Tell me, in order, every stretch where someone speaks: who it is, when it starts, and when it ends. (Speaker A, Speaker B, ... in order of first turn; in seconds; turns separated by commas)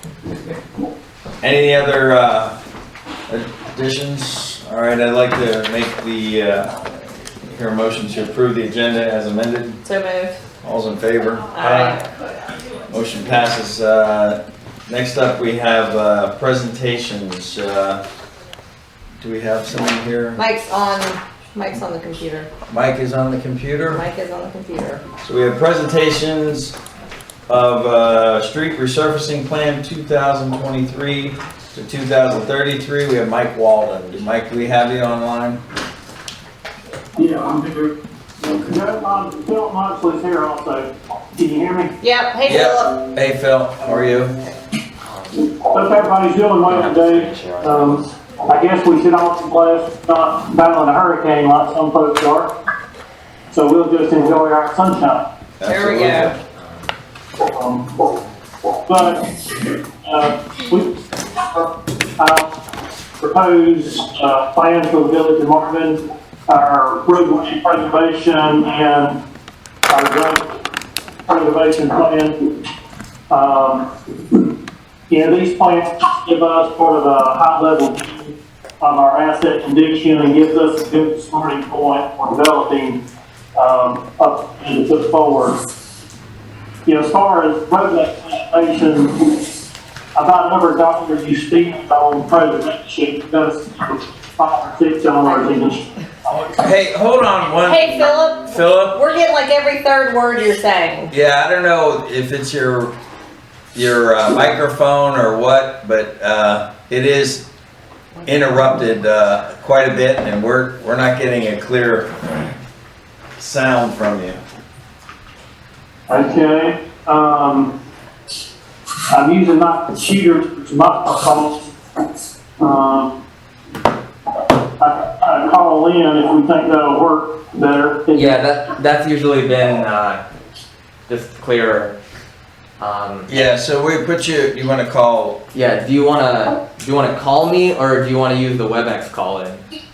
Speaker A: 1.4-2.6, Speaker A: 3.3-9.8, Speaker B: 9.8-10.4, Speaker A: 10.6-12.0, Speaker B: 11.6-12.0, Speaker A: 12.9-18.0, Speaker A: 19.2-20.4, Speaker B: 20.4-22.5, Speaker A: 22.7-24.0, Speaker B: 23.9-25.1, Speaker A: 25.2-26.8, Speaker A: 27.5-35.6, Speaker C: 37.2-42.0, Speaker B: 42.0-43.0, Speaker A: 42.5-44.4, Speaker D: 45.1-45.4, Speaker C: 45.6-52.5, Speaker D: 46.7-48.1, Speaker C: 53.5-55.2, Speaker A: 55.6-56.4, Speaker B: 55.6-56.3, Speaker C: 57.5-58.1, Speaker C: 58.9-62.6, Speaker C: 63.2-69.2, Speaker C: 69.9-70.6, Speaker C: 71.3-72.5, Speaker C: 73.3-74.5, Speaker C: 75.1-83.0, Speaker C: 83.5-85.7, Speaker C: 86.8-89.6, Speaker C: 90.2-96.5, Speaker B: 95.2-95.6, Speaker A: 96.3-99.0, Speaker B: 97.6-101.1, Speaker A: 101.1-102.9, Speaker A: 103.8-107.5, Speaker A: 108.3-112.5, Speaker A: 113.4-114.4, Speaker C: 116.1-117.7, Speaker C: 119.1-123.2, Speaker C: 124.4-128.3, Speaker D: 128.1-130.2, Speaker D: 131.1-131.9, Speaker D: 132.8-133.3, Speaker A: 133.3-135.4, Speaker D: 135.5-139.6